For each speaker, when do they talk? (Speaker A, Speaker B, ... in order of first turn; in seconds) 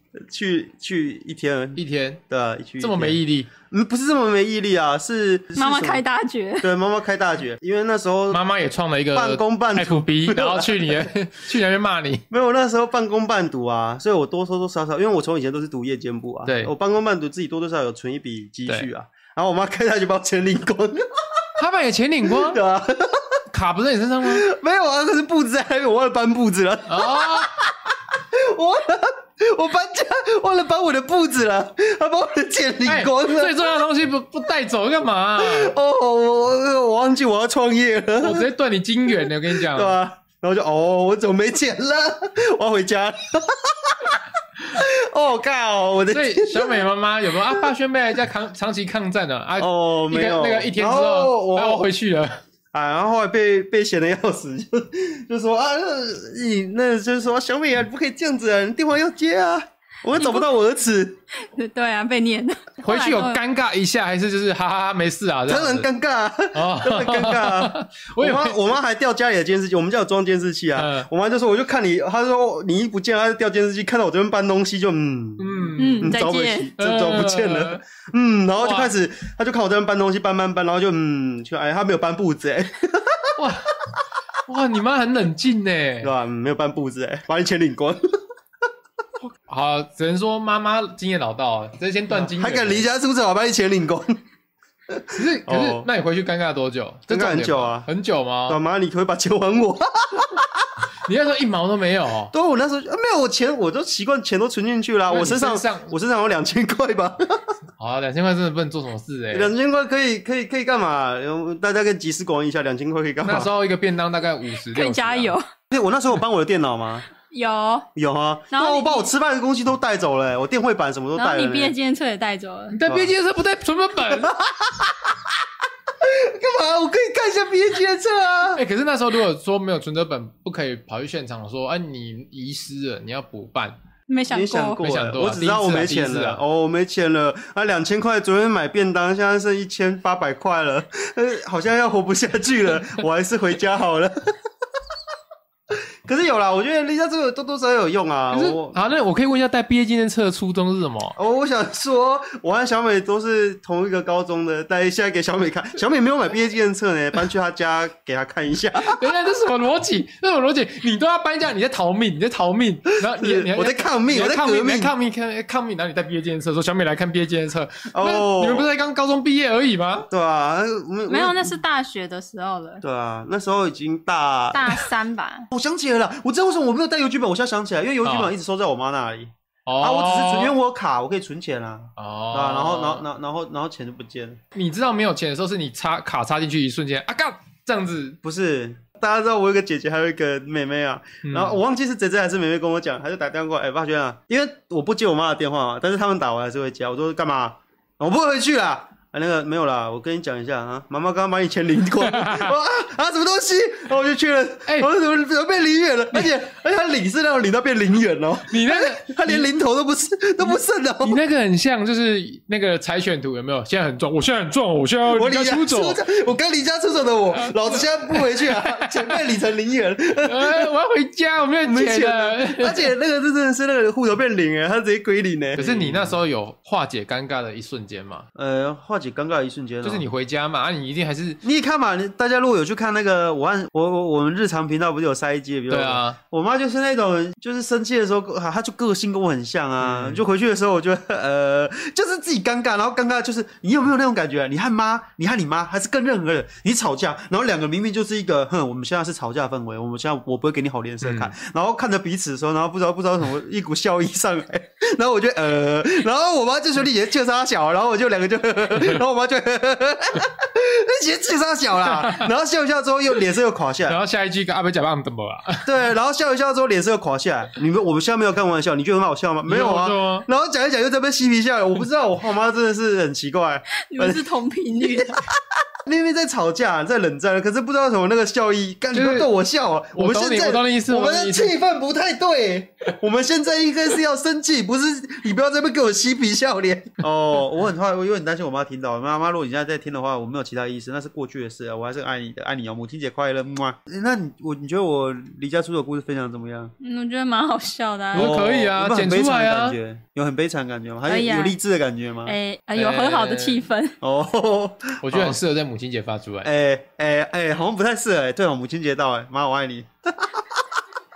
Speaker A: 0.2-6.0, 6.6-8.4, 9.1-11.1, 12.3-21.1, 22.3-23.4, 24.2-33.8, 35.4-38.5, 39.2-46.8, 49.6-51.9, 52.7-61.2, 65.5-83.4, 86.0-88.0, 92.1-94.2, 94.9-95.9, 97.1-97.9, 98.5-100.7, 102.3-107.5, 109.3-113.5, 115.7-117.1, 118.0-121.7, 122.9-123.1, 124.1-125.4, 126.0-128.6, 134.3-144.3, 145.7-148.8, 151.2-159.0, 163.1-164.9, 167.9-168.7, 170.1-171.6, 172.8-174.9, 175.5-184.4, 188.2-211.2, 215.1-220.7, 221.7-226.2, 228.3-230.1, 231.4-264.0, 265.6-274.3, 274.8-296.7, 298.1-302.4, 304.0-305.4, 306.4-310.6
Speaker B: 1.8-2.2, 2.8-3.5, 8.3-12.2, 16.4-16.7, 21.6-22.6, 23.5-24.4, 26.9-27.5, 32.8-35.7, 38.2-40.0, 46.1-52.4, 62.8-65.9, 66.5-68.6, 70.7-71.1, 75.4-76.2, 76.8-77.8, 78.6-78.9, 83.4-83.7, 84.5-86.1, 89.2-92.9, 95.1-98.6, 101.0-102.3, 105.1-105.9, 107.8-109.5, 113.2-115.4, 122.7-124.3, 128.6-133.8, 134.8-136.4, 148.3-151.2, 158.8-170.1, 178.0-178.3, 179.7-180.5, 182.0-183.0, 184.5-188.2, 191.2-191.6, 202.1-202.5, 208.5-209.5, 210.4-216.0, 217.4-219.2, 220.2-222.9, 225.6-228.3, 229.8-231.4, 235.7-236.2, 239.8-240.2, 251.0-251.3, 261.8-262.3, 263.9-265.7, 269.4-270.3, 278.9-279.3, 279.9-281.6, 298.1-299.8, 302.8-303.6, 305.0-306.5
Speaker C: 5.6-6.7, 60.1-60.4, 61.5-63.4, 75.8-76.7, 114.7-115.4, 117.3-117.9, 118.5-119.1, 121.2-122.8, 134.1-134.8, 171.1-172.8, 174.5-175.5, 273.9-275.2, 296.8-298.4, 301.1-301.6, 302.2-304.0